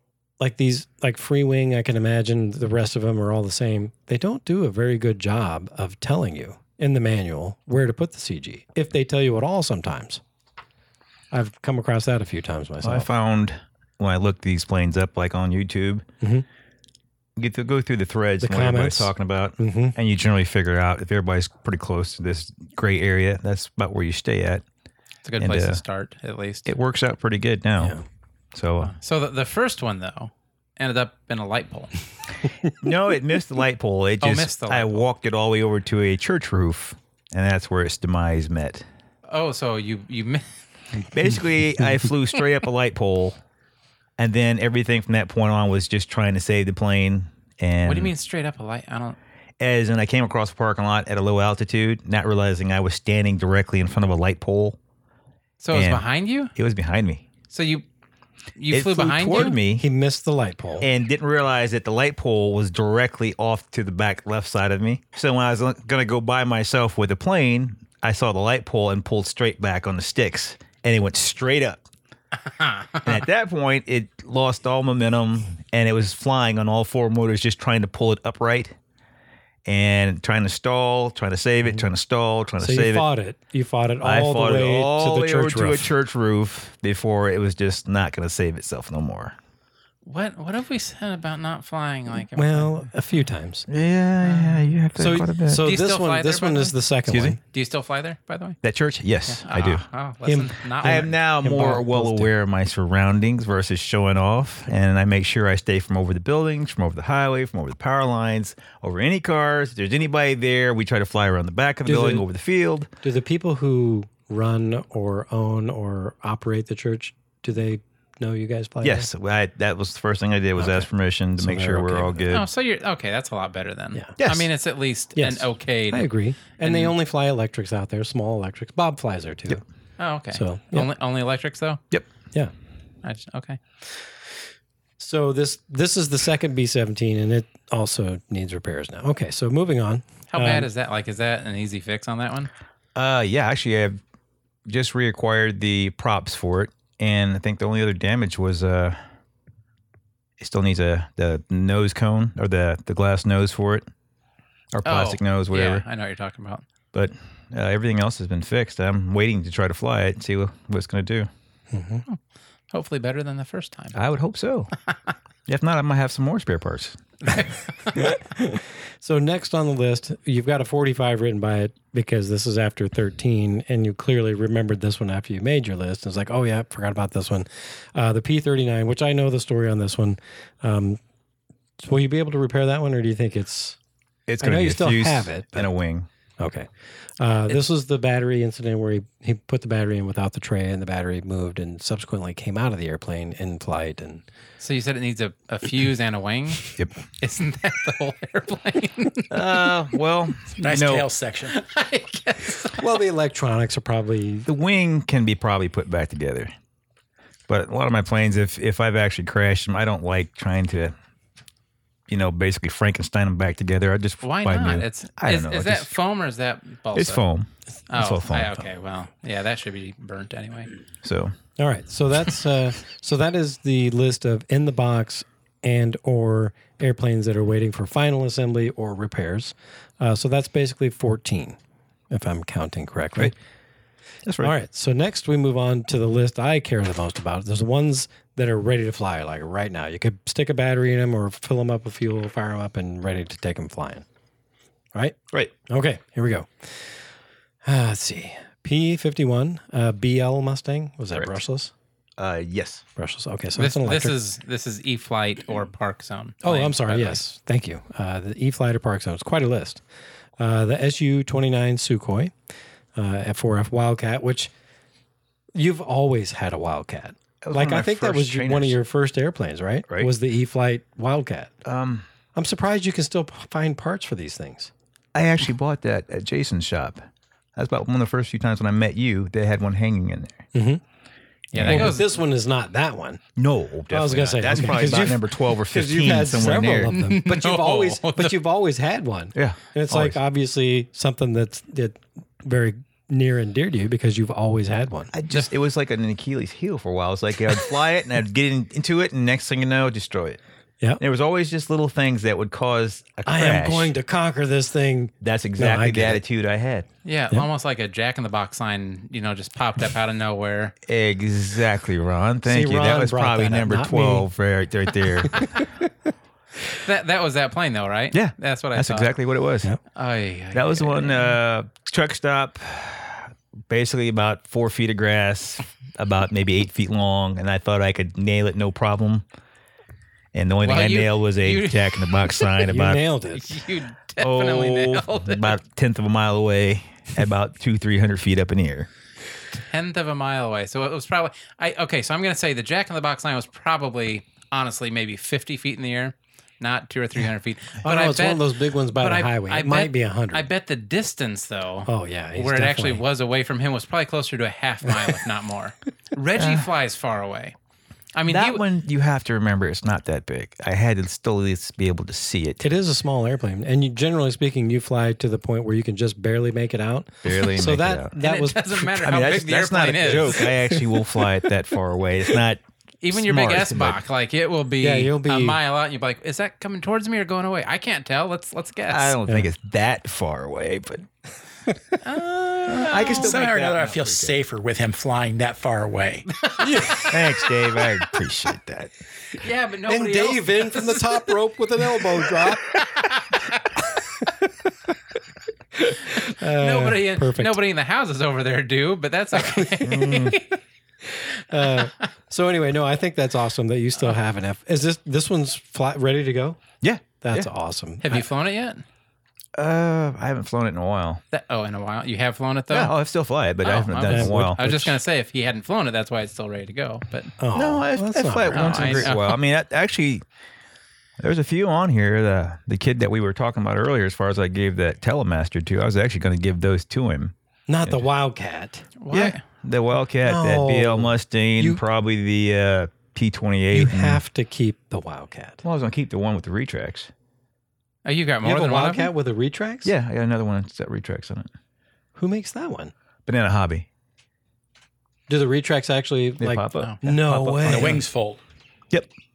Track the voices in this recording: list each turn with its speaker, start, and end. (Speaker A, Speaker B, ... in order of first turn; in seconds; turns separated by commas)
Speaker A: 0.4-10.2, Speaker A: 11.3-13.1, Speaker B: 12.8-16.1, Speaker A: 16.2-16.5, Speaker B: 17.4-24.6, Speaker A: 18.4-20.0, Speaker C: 25.2-26.7, Speaker B: 25.4-25.8, Speaker B: 26.7-27.9, Speaker A: 27.8-28.0, Speaker B: 28.5-28.9, Speaker C: 28.8-31.9, Speaker B: 32.8-38.9, Speaker C: 34.2-35.0, Speaker C: 39.3-40.5, Speaker B: 41.1-43.4, Speaker B: 44.2-48.1, Speaker C: 47.9-49.2, Speaker B: 49.6-54.8, Speaker C: 55.6-56.5, Speaker B: 55.7-56.0, Speaker B: 56.5-57.3, Speaker C: 57.5-57.9, Speaker C: 58.6-59.6, Speaker B: 58.7-59.8, Speaker A: 59.4-60.9, Speaker B: 60.8-71.8, Speaker C: 72.5-73.1, Speaker B: 73.0-78.8, Speaker B: 79.7-83.1, Speaker A: 82.6-85.9, Speaker B: 84.0-89.3, Speaker C: 90.0-92.8, Speaker A: 92.4-93.7, Speaker B: 93.7-95.6, Speaker C: 94.2-94.7, Speaker A: 95.0-97.4, Speaker C: 95.6-96.7, Speaker B: 97.1-97.4, Speaker C: 97.5-98.6, Speaker B: 98.6-99.9, Speaker C: 99.3-101.2, Speaker A: 100.2-102.3, Speaker B: 100.8-112.9, Speaker A: 111.8-112.2, Speaker A: 113.0-119.1, Speaker B: 118.8-122.5, Speaker A: 120.6-122.3, Speaker C: 122.3-126.9, Speaker B: 124.2-124.5, Speaker A: 125.2-129.6, Speaker C: 130.0-131.8, Speaker A: 130.3-130.9, Speaker C: 133.0-133.6, Speaker A: 135.0-140.7, Speaker C: 140.3-142.5, Speaker B: 142.9-144.0, Speaker B: 144.7-149.0, Speaker B: 150.4-153.9, Speaker B: 154.7-155.8, Speaker C: 154.8-156.7, Speaker B: 156.9-161.3, Speaker A: 161.7-162.1, Speaker C: 162.7-164.0, Speaker B: 163.9-164.7, Speaker B: 165.5-167.0, Speaker C: 167.2-168.2, Speaker A: 167.9-181.0, Speaker A: 181.8-183.8, Speaker B: 184.3-186.1, Speaker A: 184.4-185.7, Speaker A: 186.4-194.2, Speaker C: 194.6-199.4, Speaker B: 199.3-201.1, Speaker D: 200.6-201.6, Speaker C: 201.5-202.9, Speaker A: 202.7-204.5, Speaker B: 204.5-206.5, Speaker B: 207.5-210.9, Speaker B: 212.1-215.9, Speaker C: 214.2-217.2, Speaker B: 216.9-218.6, Speaker C: 217.9-220.7, Speaker B: 221.0-221.3, Speaker A: 221.6-231.6, Speaker A: 232.1-233.3, Speaker B: 234.3-234.5, Speaker A: 234.4-244.1, Speaker A: 244.9-247.0, Speaker A: 247.6-251.7, Speaker B: 252.2-252.8, Speaker A: 253.0-254.2, Speaker C: 253.6-257.2, Speaker A: 256.4-259.8, Speaker A: 260.4-262.3, Speaker A: 262.9-264.5, Speaker A: 265.6-271.5, Speaker B: 267.4-268.8, Speaker B: 271.6-272.1, Speaker A: 272.3-274.7, Speaker B: 275.1-277.0, Speaker B: 277.6-280.4, Speaker A: 280.5-280.8, Speaker C: 281.5-282.1, Speaker B: 281.6-282.0, Speaker A: 281.6-283.2, Speaker B: 283.4-286.9, Speaker A: 283.9-295.1, Speaker C: 286.9-288.4, Speaker B: 289.4-290.2, Speaker B: 295.1-300.4, Speaker B: 301.0-303.9, Speaker A: 303.3-306.2, Speaker B: 305.2-306.9, Speaker C: 307.1-310.8, Speaker B: 310.9-315.6, Speaker A: 312.4-314.3, Speaker A: 315.2-315.7, Speaker C: 316.8-319.1, Speaker B: 318.1-319.7, Speaker C: 319.9-321.4, Speaker B: 320.5-329.2, Speaker B: 330.3-333.0, Speaker C: 330.6-332.6, Speaker A: 332.7-333.6, Speaker C: 333.3-335.5, Speaker B: 334.2-338.9, Speaker C: 339.5-357.6, Speaker A: 347.8-350.5, Speaker A: 351.9-353.0, Speaker B: 356.4-356.7, Speaker C: 358.1-358.6, Speaker B: 358.3-362.7, Speaker A: 362.6-368.9, Speaker B: 367.2-368.1, Speaker C: 368.2-370.5, Speaker B: 368.9-374.0, Speaker A: 370.4-370.8, Speaker C: 373.0-379.2, Speaker A: 374.8-375.6, Speaker B: 378.9-381.1, Speaker C: 382.0-383.3, Speaker B: 382.7-384.4, Speaker D: 383.0-386.3, Speaker C: 386.4-387.0, Speaker A: 386.6-387.3, Speaker B: 387.0-388.9, Speaker C: 389.3-391.3, Speaker A: 389.9-392.7, Speaker C: 393.0-393.4, Speaker A: 395.8-397.6, Speaker C: 396.2-400.6, Speaker A: 399.3-400.0, Speaker B: 399.8-400.4, Speaker A: 401.0-406.6, Speaker B: 406.8-407.5, Speaker A: 407.2-408.3, Speaker C: 408.0-408.8, Speaker B: 409.6-411.2, Speaker C: 411.3-412.9, Speaker B: 412.7-414.8, Speaker C: 413.6-417.3, Speaker A: 414.1-415.0, Speaker A: 417.4-419.1, Speaker B: 417.5-420.2, Speaker C: 418.5-419.4, Speaker B: 421.2-427.3, Speaker A: 427.7-428.9, Speaker C: 429.0-429.4, Speaker B: 429.1-434.2, Speaker A: 430.2-431.8, Speaker A: 433.7-435.6, Speaker B: 435.6-437.1, Speaker C: 438.1-439.1, Speaker A: 438.4-439.9, Speaker B: 439.8-441.5, Speaker A: 442.2-442.9, Speaker B: 443.3-443.9, Speaker A: 445.3-448.0, Speaker B: 446.4-448.0, Speaker D: 447.6-448.4